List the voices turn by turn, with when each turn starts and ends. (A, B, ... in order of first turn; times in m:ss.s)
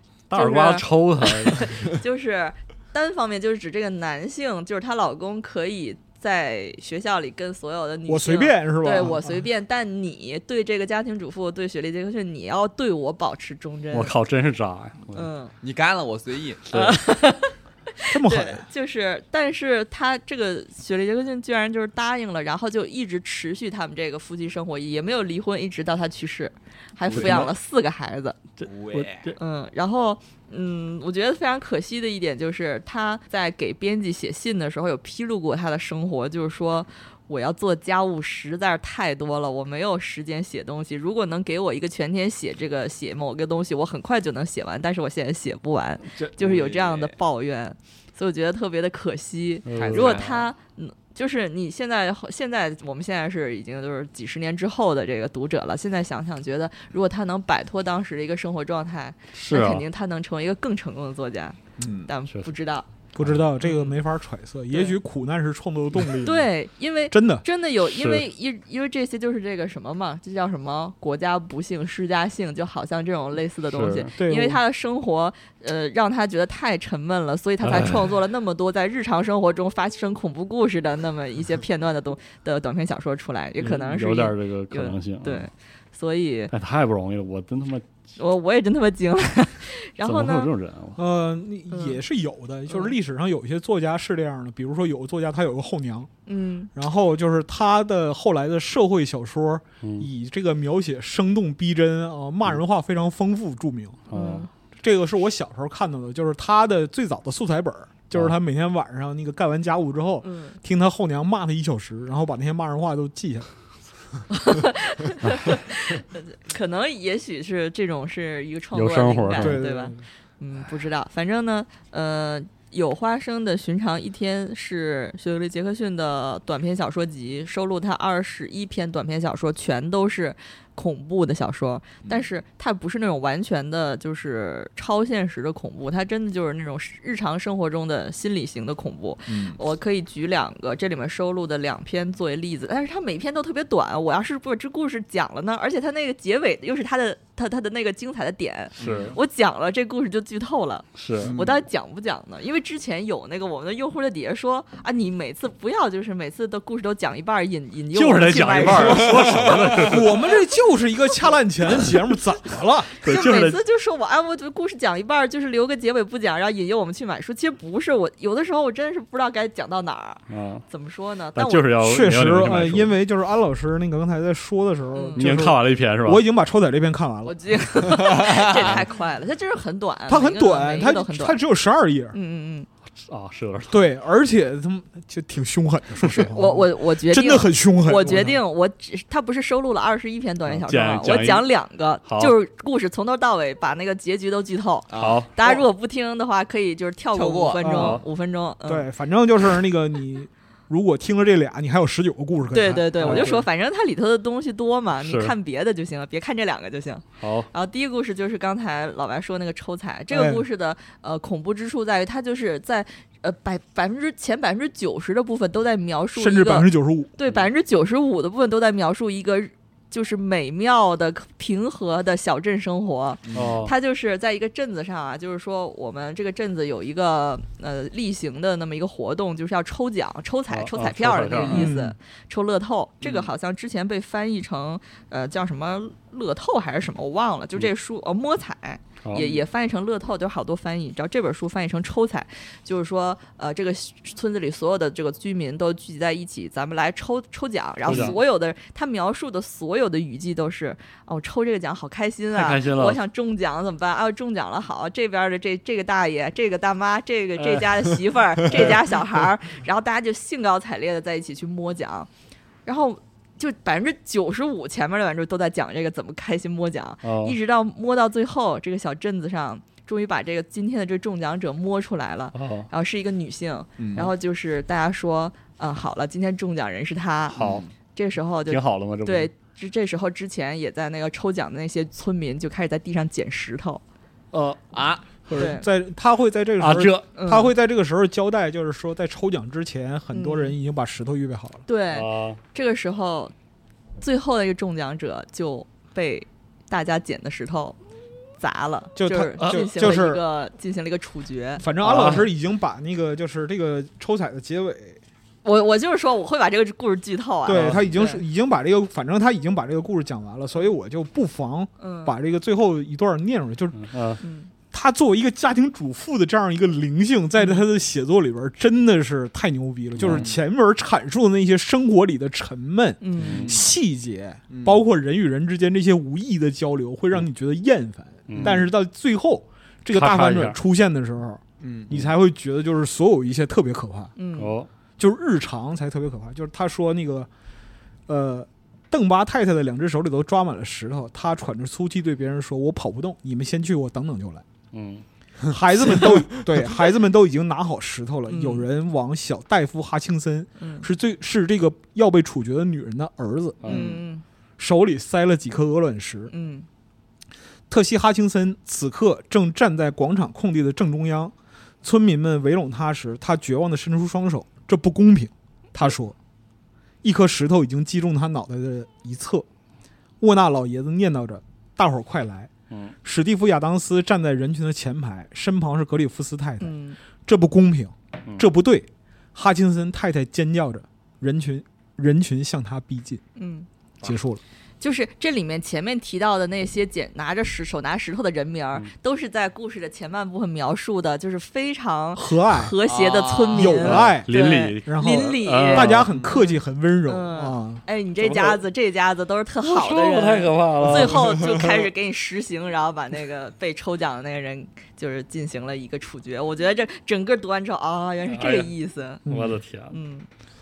0:00.3-0:01.8 A
0:00.3-0:14.1 B
0:08.1-0:09.4 C
0:13.9-0:15.3 A
0:15.1-0:15.5 B
0:15.6-0:16.6 D
0:16.7-0:17.0 A
0:16.7-0:28.4 B
0:18.1-0:18.6 C
0:27.0-0:27.5 A
0:28.6-0:29.4 A
0:28.6-0:29.3 D
0:29.4-1:02.9 B
0:46.1-0:46.4 A
0:46.4-0:47.1 D
0:49.6-0:50.2 A
0:49.7-0:50.5 D
0:59.3-0:59.8 A
1:01.8-1:02.1 D
1:03.1-1:06.5 C
1:03.2-1:03.4 A
1:03.6-1:03.9 B
1:04.7-1:05.0 B
1:06.2-1:26.5 B
1:07.1-1:07.4 C
1:07.8-1:08.2 A
1:13.7-1:14.1 A
1:14.2-1:14.6 C
1:17.6-1:18.1 A
1:23.6-1:25.5 A
1:26.5-1:27.9 A
1:28.2-1:30.5 B
1:30.0-1:31.0 A
1:31.0-1:36.1 C
1:31.7-1:32.0 B
1:32.7-1:32.9 B
1:36.3-1:36.7 B
1:36.7-1:44.0 C
1:39.8-1:40.1 A
1:44.1-1:44.5 A
1:44.1-1:44.5 B
1:44.8-1:53.5 C
1:50.2-1:50.6 B
1:54.3-2:39.8 B
1:58.7-1:59.6 A
1:59.4-2:00.0 C
2:19.3-2:19.6 D
2:28.8-2:29.2 D
2:28.8-2:29.2 A
2:31.0-2:31.3 A
2:31.2-2:31.6 D
2:37.9-2:40.3 A
2:38.7-2:39.9 D
2:39.8-2:43.0 C
2:43.0-2:43.6 A
2:43.0-2:51.7 B
2:50.3-2:50.6 A
2:51.3-2:52.9 A
2:51.8-2:58.8 C
2:54.9-2:55.2 B
2:55.2-2:56.2 A
2:57.2-3:01.4 B
3:00.1-3:02.2 C
3:02.1-3:02.7 B
3:03.0-3:03.9 A
3:03.7-3:08.4 C
3:06.1-3:18.9 B
3:10.4-3:11.5 A
3:12.0-3:12.4 A
3:14.9-3:15.6 D
3:14.9-3:15.3 A
3:17.1-3:17.6 D
3:17.6-3:18.0 C
3:17.7-3:18.0 A
3:18.6-3:23.4 C
3:22.5-4:22.1 B
3:23.0-3:23.3 A
3:25.0-3:25.3 A
3:27.2-3:27.5 A
3:30.1-3:30.4 C
3:36.1-3:37.1 C
3:43.3-3:43.5 D
3:43.3-3:43.7 A
3:50.5-3:51.7 A
3:51.5-3:51.9 C
3:53.0-3:53.3 D
3:59.0-3:59.3 A
3:59.1-3:59.4 D
4:07.8-4:08.2 A
4:07.9-4:08.1 D
4:12.3-4:13.0 A
4:17.4-4:18.9 A
4:22.6-4:37.4 B
4:27.0-4:27.4 A
4:32.3-4:32.7 A
4:33.8-4:34.1 D
4:37.3-4:37.6 A
4:37.3-4:37.7 D
4:37.9-4:43.8 B
4:38.5-4:39.3 A
4:44.3-4:44.6 A
4:44.7-4:45.0 D
4:45.3-4:51.6 C
4:45.3-4:45.7 B
4:46.6-4:47.0 A
4:47.1-4:47.5 B
4:50.1-4:50.6 B
4:51.6-4:53.3 B
4:51.9-4:52.4 A
4:54.0-4:57.8 B
4:58.4-5:01.6 B
4:59.0-5:00.2 C
4:59.4-4:59.7 A
5:01.6-5:05.0 C
5:01.8-5:02.3 A
5:05.4-5:08.2 B
5:07.4-5:13.8 C
5:07.5-5:07.8 A
5:11.8-5:12.1 B
5:13.7-5:14.2 A
5:14.2-5:14.5 B
5:14.7-5:34.1 C
5:17.4-5:17.6 B
5:20.0-5:20.3 A
5:20.0-5:20.4 D
5:23.0-5:23.5 B
5:23.2-5:23.6 A
5:23.4-5:23.7 D
5:24.5-5:24.8 D
5:28.3-5:28.7 A
5:28.4-5:28.6 D
5:29.9-5:30.6 A
5:31.6-5:31.9 D
5:34.2-5:34.5 B
5:34.4-5:34.7 A
5:35.0-5:37.3 C
5:38.1-5:44.4 C
5:44.7-5:45.0 A
5:45.5-5:54.0 C
5:48.3-5:48.6 B
5:50.6-5:50.9 B
5:53.6-5:54.0 A
5:53.7-5:54.2 B
5:54.6-5:56.3 C
5:56.3-5:56.7 B
5:57.7-6:06.1 C
6:07.0-6:09.4 C
6:10.2-6:12.5 C
6:13.0-6:16.7 C
6:16.6-6:17.0 B
6:17.2-6:23.2 C
6:23.4-6:23.7 B
6:24.0-6:24.4 C
6:24.8-6:49.2 B
6:32.1-6:32.8 C
6:32.8-6:33.8 D
6:33.5-6:37.8 C
6:33.8-6:36.1 A
6:38.2-6:38.6 A
6:39.6-6:41.6 A
6:48.3-6:48.7 A
6:49.2-6:49.6 C
6:49.2-6:50.0 A
6:49.9-6:50.3 B